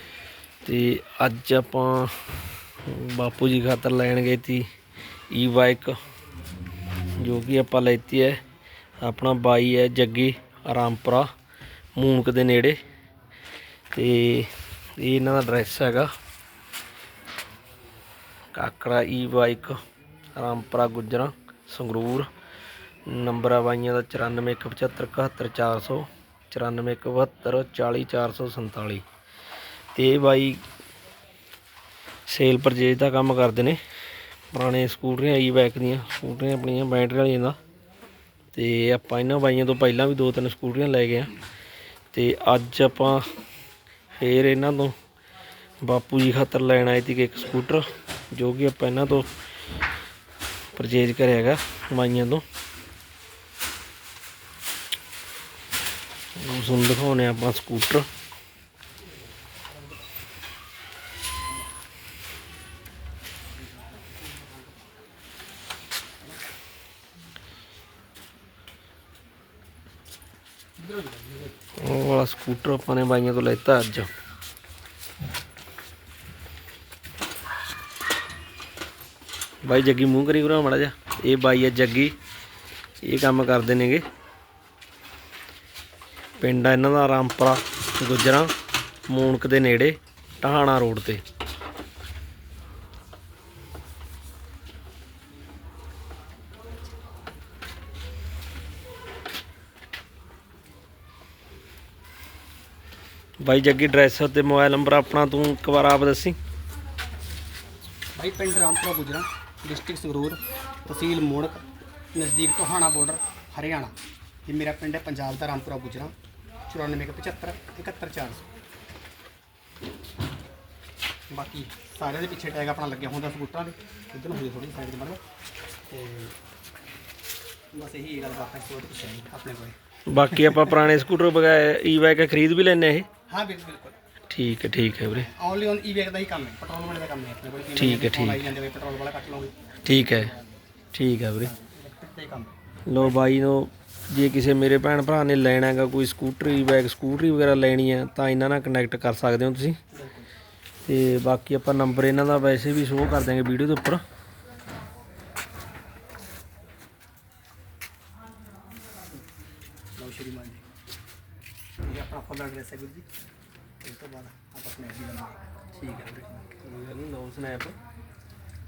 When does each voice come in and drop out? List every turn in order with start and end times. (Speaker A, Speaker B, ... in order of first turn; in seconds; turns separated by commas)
Speaker A: 0.6-2.1, Speaker A: 2.8-4.7, Speaker A: 5.3-5.9, Speaker A: 7.2-8.4, Speaker A: 9.0-11.3, Speaker A: 11.9-12.8, Speaker A: 13.9-16.1, Speaker A: 18.5-19.8, Speaker A: 20.4-22.3, Speaker A: 23.1-29.0, Speaker A: 29.9-30.6, Speaker A: 32.3-33.8, Speaker A: 34.5-37.6, Speaker A: 38.5-41.3, Speaker A: 42.1-43.2, Speaker A: 44.2-44.9, Speaker A: 45.8-49.3, Speaker A: 50.7-52.4, Speaker A: 56.4-58.1, Speaker B: 63.8-64.4, Speaker B: 70.8-71.5, Speaker A: 71.8-74.1, Speaker A: 79.6-82.1, Speaker A: 83.0-84.0, Speaker A: 86.4-88.5, Speaker A: 89.1-91.2, Speaker A: 103.4-106.4, Speaker B: 108.2-113.9, Speaker B: 114.5-116.1, Speaker B: 116.7-118.4, Speaker B: 121.3-125.2, Speaker B: 125.9-126.3, Speaker B: 127.7-129.8, Speaker A: 130.1-133.1, Speaker B: 130.3-130.8, Speaker B: 133.3-134.0, Speaker A: 134.3-135.3, Speaker B: 135.1-140.5, Speaker A: 137.8-138.5, Speaker A: 139.8-140.3, Speaker A: 140.9-141.5, Speaker B: 141.4-143.2, Speaker A: 142.8-149.8, Speaker B: 149.9-150.3, Speaker A: 150.8-154.0, Speaker B: 159.9-160.6, Speaker B: 161.8-163.1, Speaker B: 163.8-166.5, Speaker A: 166.5-167.8